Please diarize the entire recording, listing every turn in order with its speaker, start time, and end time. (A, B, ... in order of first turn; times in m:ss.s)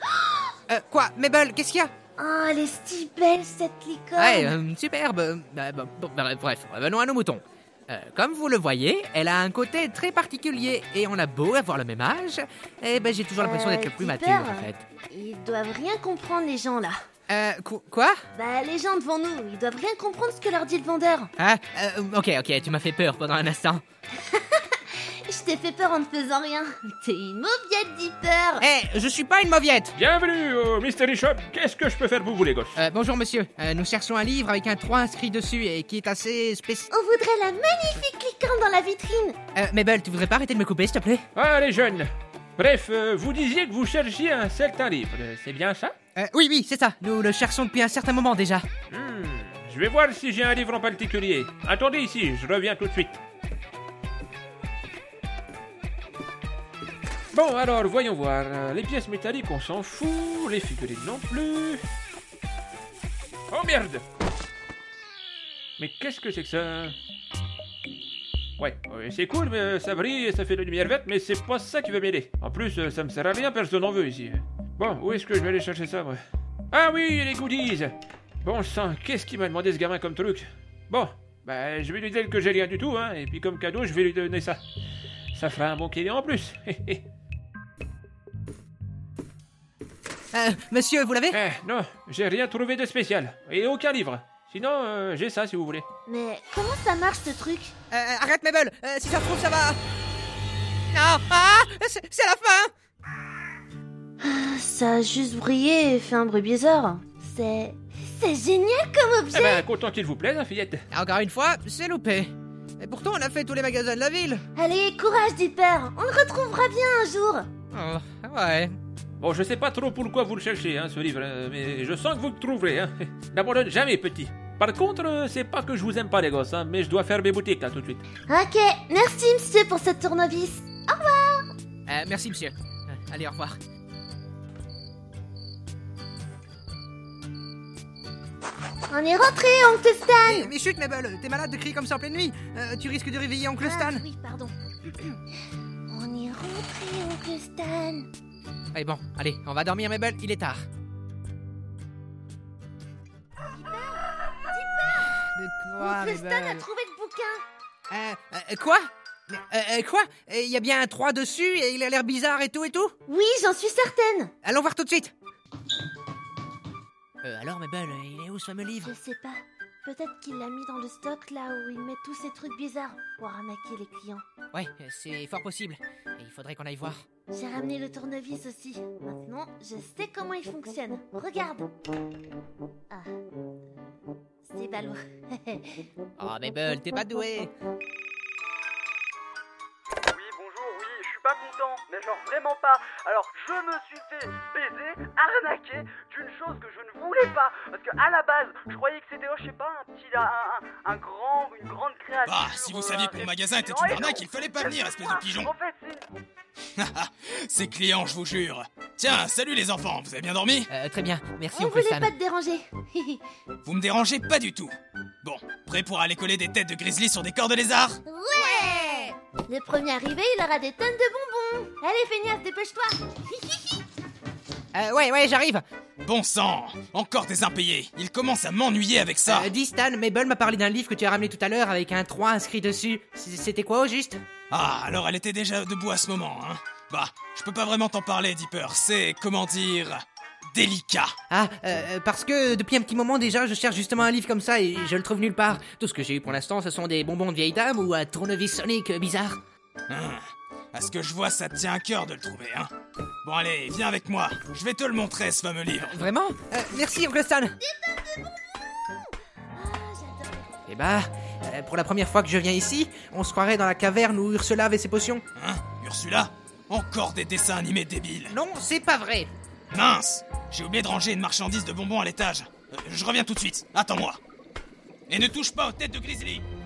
0:00.1-0:00.5 A
0:00.7-0:01.9 B
0:02.2-0:04.5 A
0:04.2-0:14.8 B
0:13.4-0:17.0 A
0:17.3-0:18.2 B
0:18.3-0:21.3 A
0:21.4-0:23.8 B
0:24.2-0:28.6 A
0:28.6-0:30.0 B
0:30.0-0:32.8 C
0:32.8-0:36.9 B
0:36.9-0:39.4 A
0:39.5-0:41.2 B
0:41.3-0:46.0 C
0:46.2-0:48.6 B
0:48.9-0:53.2 C
0:57.3-1:01.8 C
1:03.5-1:04.0 C
1:05.8-1:07.0 C
1:08.6-1:24.6 C
1:25.3-1:27.0 C
1:30.3-1:31.4 B
1:31.3-1:35.8 C
1:36.1-1:37.7 A
1:37.9-1:39.8 B
1:40.9-1:42.7 B
1:44.2-1:49.6 A
1:49.3-1:50.8 C
1:50.9-1:54.4 B
1:54.6-1:57.5 A
1:57.7-1:58.8 B
1:59.2-2:08.0 C
2:08.3-2:11.5 A
2:11.9-2:13.6 B
2:18.9-2:20.5 A
2:20.2-2:24.0 B
2:23.6-2:25.2 A
2:25.9-2:28.1 A
2:28.7-2:30.6 B
2:33.5-2:35.2 A
2:35.0-2:36.7 B
2:35.8-2:37.4 A
2:37.9-2:42.9 B
2:43.1-2:44.3 A
2:44.4-2:45.1 B
2:47.2-2:48.9 B
2:48.8-2:54.2 A
2:54.5-2:57.0 B
2:57.3-3:01.7 A
3:04.4-3:05.9 A
3:06.2-3:07.5 B
3:10.1-3:26.1 D
3:22.2-3:25.5 E
3:26.8-3:30.7 E
3:30.7-3:32.1 B
3:31.6-3:33.2 A
3:33.6-3:38.0 E
3:38.1-3:43.8 A
3:38.4-3:39.1 B
3:44.7-3:45.6 B
3:46.0-3:49.5 E
3:49.2-3:54.2 B
3:54.5-4:01.2 E
4:01.3-4:09.4 B
4:09.9-4:12.7 E
4:13.2-4:16.0 E
4:15.8-4:17.6 B
4:17.6-4:19.0 A
4:19.6-4:20.5 A
4:20.7-4:25.2 B
4:25.4-4:28.4 E
4:28.3-4:29.3 B
4:29.7-4:34.2 E
4:35.1-4:36.4 E